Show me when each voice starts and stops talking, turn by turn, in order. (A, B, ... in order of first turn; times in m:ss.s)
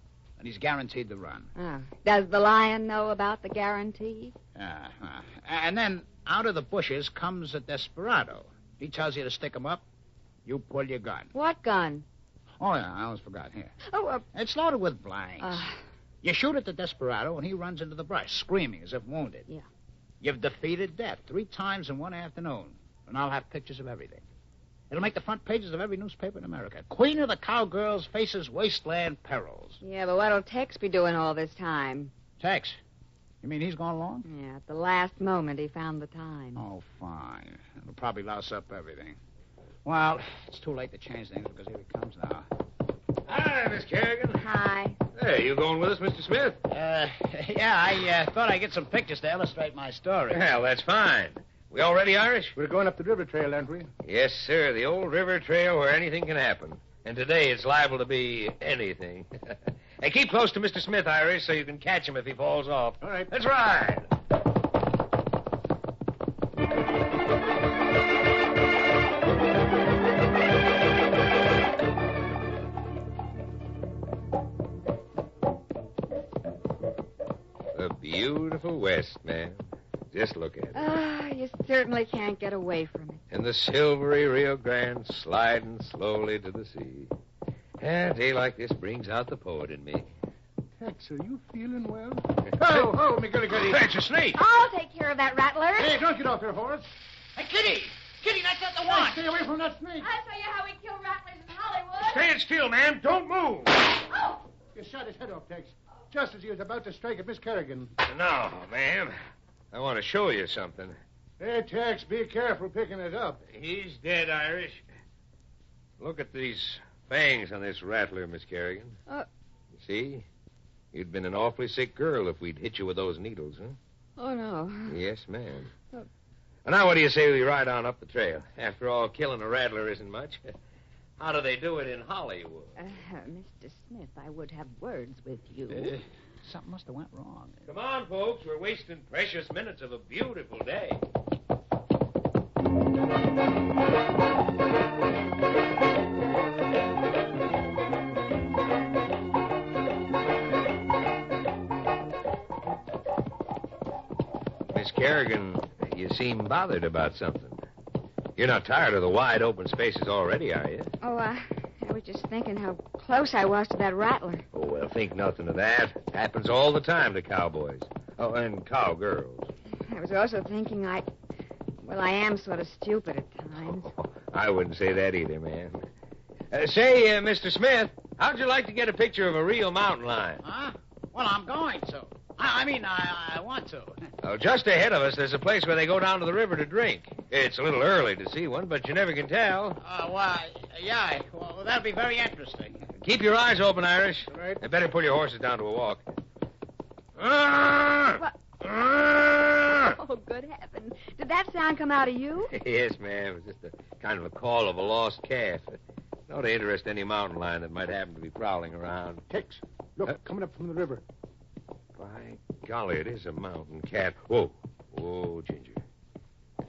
0:00.4-0:01.5 A
0:01.6-0:04.4 B
0:04.6-0:09.8 A
0:10.5-0:11.3 A
0:11.3-0:12.0 B
0:12.6-0:13.8 A
0:13.9-0:14.2 B
0:14.3-0:15.6 A
0:15.4-0:15.8 B
0:16.2-0:19.5 A
0:20.2-0:24.2 A
0:24.9-0:29.8 A
0:29.8-0:32.1 B
0:32.4-0:32.8 A
0:33.4-0:34.2 A
0:34.2-0:36.6 B
0:36.6-0:39.2 A
0:39.8-0:42.5 A
0:43.3-0:44.4 C
0:44.4-0:45.0 B
0:45.1-0:46.6 C
0:46.7-0:50.4 A
0:50.3-0:52.6 C
0:52.6-0:53.9 D
0:54.0-1:04.1 C
1:03.0-1:03.3 D
1:17.7-1:20.8 C
1:20.8-1:23.2 B
1:23.3-1:27.1 C
1:27.8-1:30.1 C
1:30.8-1:33.9 D
1:33.6-1:34.4 C
1:34.3-1:36.0 B
1:35.8-1:36.9 D
1:37.4-1:39.2 A
1:38.9-1:40.1 D
1:40.0-1:42.2 B
1:42.0-1:43.8 C
1:44.1-1:44.4 B
1:44.7-1:47.9 D
1:48.0-1:49.2 C
1:49.7-1:51.0 C
1:51.4-1:53.4 D
1:53.5-1:54.8 C
1:56.0-1:59.0 C
1:59.8-2:00.3 C
2:00.9-2:03.8 C
2:04.2-2:05.0 B
2:04.9-2:05.7 C
2:06.6-2:10.5 C
2:11.2-2:12.8 C
2:12.8-2:16.0 B
2:15.7-2:17.7 A
2:17.7-2:21.0 C
2:34.7-2:37.6 C
2:38.4-2:40.9 C
2:41.0-2:44.4 B
2:44.5-2:49.5 C
2:49.9-2:51.1 B
2:51.8-2:53.9 B
2:53.8-2:55.8 C
2:56.5-3:00.4 C
3:00.4-3:04.1 A
3:04.2-3:09.8 C
3:09.8-3:12.8 A
3:13.0-3:16.0 C
3:14.3-3:14.6 D
3:17.2-3:19.9 C
3:19.8-3:22.5 B
3:22.5-3:29.2 C
3:29.3-3:31.0 D
3:32.0-3:35.8 C